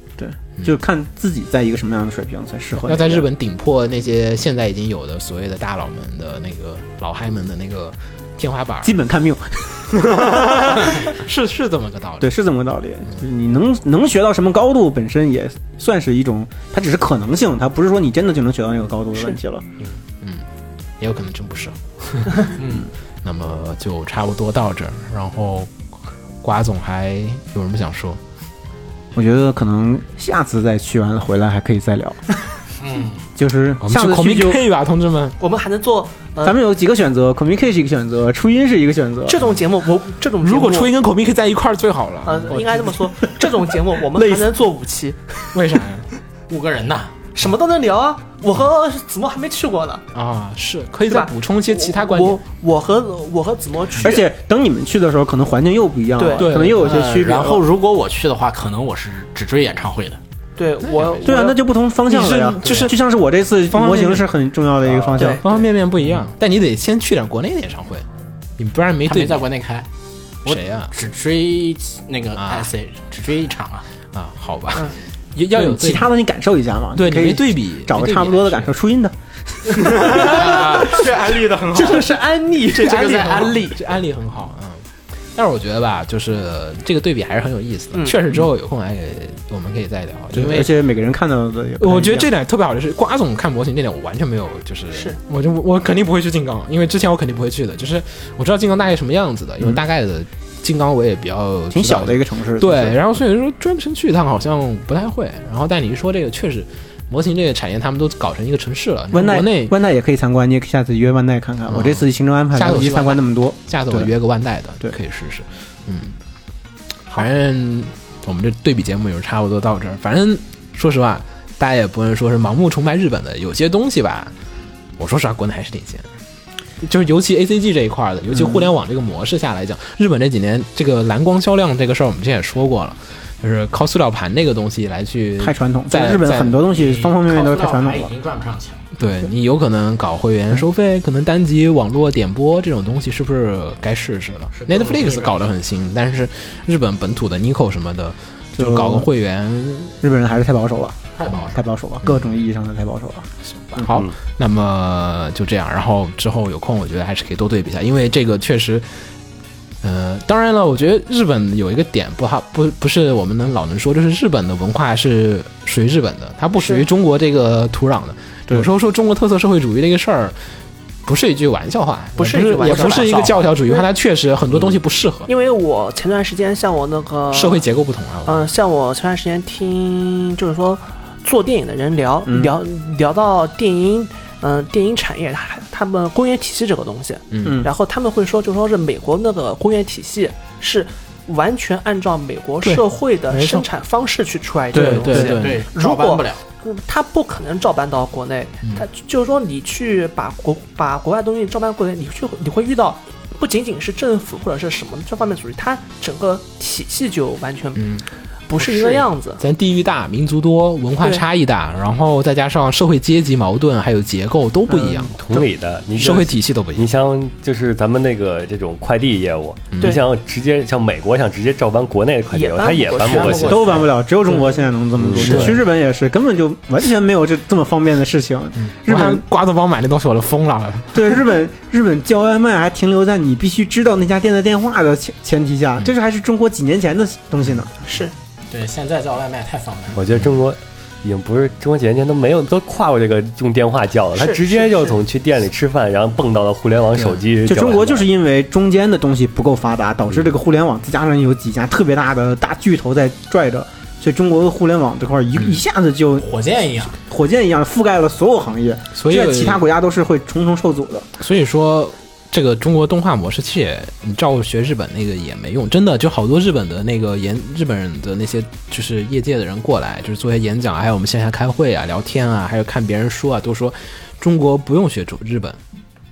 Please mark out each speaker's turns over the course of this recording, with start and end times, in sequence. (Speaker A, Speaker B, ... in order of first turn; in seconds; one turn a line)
Speaker A: 0.2-3.3
Speaker B: 2.8-8.9
Speaker A: 8.8-11.1
Speaker B: 10.1-12.3
Speaker A: 12.2-19.7
Speaker B: 20.2-20.5
Speaker B: 21.0-22.5
Speaker C: 22.6-22.9
Speaker A: 22.6-22.9
Speaker B: 23.2-25.7
Speaker B: 26.4-28.2
Speaker A: 29.1-32.2
Speaker C: 32.8-33.3
Speaker A: 33.4-34.6
Speaker B: 33.8-35.4
Speaker D: 35.4-36.6
Speaker A: 36.4-39.4
Speaker D: 39.3-40.9
Speaker B: 40.4-42.7
Speaker D: 42.2-45.5
Speaker A: 42.5-44.5
Speaker B: 45.5-46.1
Speaker C: 46.5-47.2
Speaker D: 47.3-50.1
Speaker B: 50.1-52.4
Speaker D: 51.1-54.3
Speaker A: 54.0-57.6
Speaker D: 56.2-56.7
Speaker B: 56.4-57.0
Speaker C: 56.7-60.2
Speaker D: 60.6-61.6
Speaker B: 60.8-61.4
Speaker A: 61.2-65.4
Speaker B: 62.1-63.0
Speaker B: 63.7-64.3
Speaker D: 65.1-65.6
Speaker B: 65.2-68.1
Speaker B: 68.6-69.5
Speaker C: 69.1-69.9
Speaker B: 70.5-70.9
Speaker C: 70.5-73.9
Speaker B: 72.3-72.7
Speaker B: 74.1-76.1
Speaker A: 75.5-81.0
Speaker B: 77.0-78.8
Speaker B: 79.7-82.1
Speaker D: 80.2-81.2
Speaker C: 80.2-82.1
Speaker D: 81.7-83.8
Speaker B: 82.7-90.7
Speaker C: 82.7-83.7
Speaker D: 87.9-88.2
Speaker A: 90.3-92.3
Speaker B: 91.8-109.8
Speaker D: 94.9-95.2
Speaker A: 101.7-103.0
Speaker A: 109.1-114.1
Speaker B: 111.7-116.2
Speaker B: 117.1-124.3
Speaker B: 125.0-126.1
Speaker B: 126.8-136.6
Speaker A: 128.3-128.7
Speaker A: 135.4-138.1
Speaker C: 136.7-138.8
Speaker B: 139.0-150.0
Speaker C: 144.5-145.4
Speaker A: 148.6-149.1
Speaker A: 150.0-154.0
Speaker C: 151.2-151.6
Speaker B: 153.4-158.9
Speaker B: 159.8-170.4
Speaker D: 166.6-166.9
Speaker B: 171.1-175.3
Speaker D: 172.2-173.9
Speaker C: 172.2-173.4
Speaker D: 175.3-177.7
Speaker B: 177.3-178.5
Speaker D: 178.2-209.4
Speaker A: 182.3-182.6
Speaker B: 187.3-187.7
Speaker A: 187.4-187.7
Speaker B: 192.6-193.7
Speaker A: 194.7-195.3
Speaker B: 194.7-195.7
Speaker C: 195.1-196.4
Speaker B: 207.8-208.1
Speaker B: 208.6-215.4
Speaker D: 211.0-211.3
Speaker E: 214.8-223.9
Speaker B: 216.0-216.9
Speaker B: 219.7-220.0
Speaker D: 222.3-223.8
Speaker C: 223.0-223.9
Speaker A: 223.4-229.2
Speaker D: 224.3-224.6
Speaker E: 225.0-225.6
Speaker B: 228.6-231.0
Speaker A: 230.9-237.8
Speaker D: 237.8-238.1
Speaker C: 238.5-240.0
Speaker E: 239.9-248.1
Speaker D: 244.2-245.0
Speaker A: 247.4-256.3
Speaker C: 256.2-257.0
Speaker A: 257.1-261.1
Speaker B: 258.9-259.6
Speaker B: 261.2-275.6